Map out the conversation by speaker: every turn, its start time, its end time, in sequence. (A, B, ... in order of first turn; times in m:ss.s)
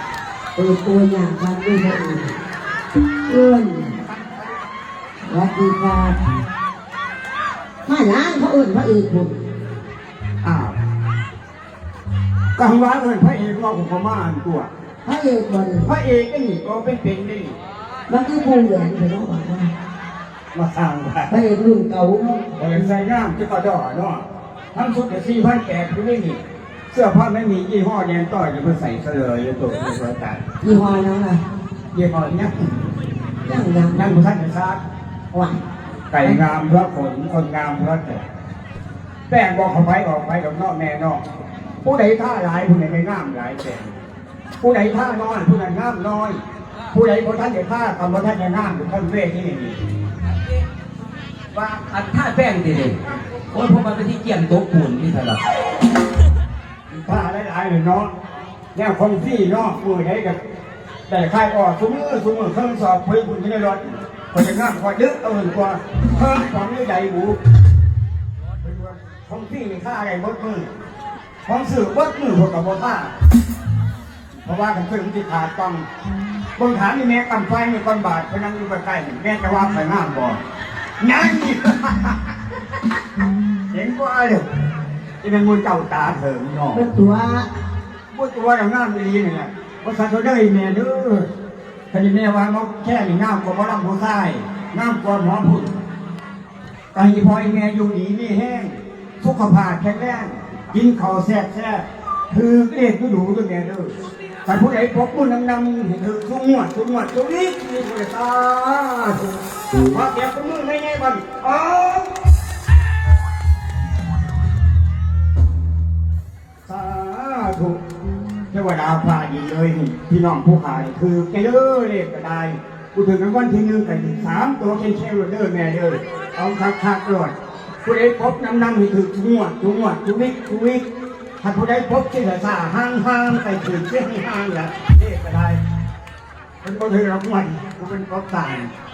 0:00.5-0:02.3 A
0:03.3-0:03.9 A
0:05.2-0:06.2 A
0:07.8-0:09.4 A
0:10.4-0:10.8 B
0:12.6-0:14.7 B
0:15.0-0:15.9 A
0:15.8-0:17.6 B
0:18.1-0:19.7 A
0:20.5-0:21.3 B
0:21.3-0:22.4 A
0:22.5-0:24.2 B
0:24.7-0:26.4 B
0:26.9-0:30.4 B
0:30.6-0:31.4 A
0:31.9-0:32.5 B
0:33.4-0:34.2 A
0:33.9-0:34.8 B
0:35.3-0:35.6 A
0:36.1-0:38.2 B
0:39.3-0:41.2 B
0:41.8-0:44.0 B
0:44.6-0:46.4 B
0:46.9-0:49.8 B
0:51.5-0:55.4 C
0:56.9-0:58.1 B
0:58.7-1:00.4 B
1:01.1-1:07.4 B
1:08.6-1:10.7 B
1:11.4-1:13.1 B
1:14.4-1:15.8 B
1:16.6-1:20.4 B
1:21.0-1:22.3 B
1:23.7-1:24.4 B
1:25.2-1:26.8 B
1:26.7-1:27.5 A
1:28.1-1:31.3 B
1:31.9-1:35.7 B
1:36.9-1:49.3 B
1:49.8-1:52.1 B
1:56.6-1:57.8 B
1:58.5-2:10.8 B
2:11.4-2:15.6 B
2:16.6-2:18.7 B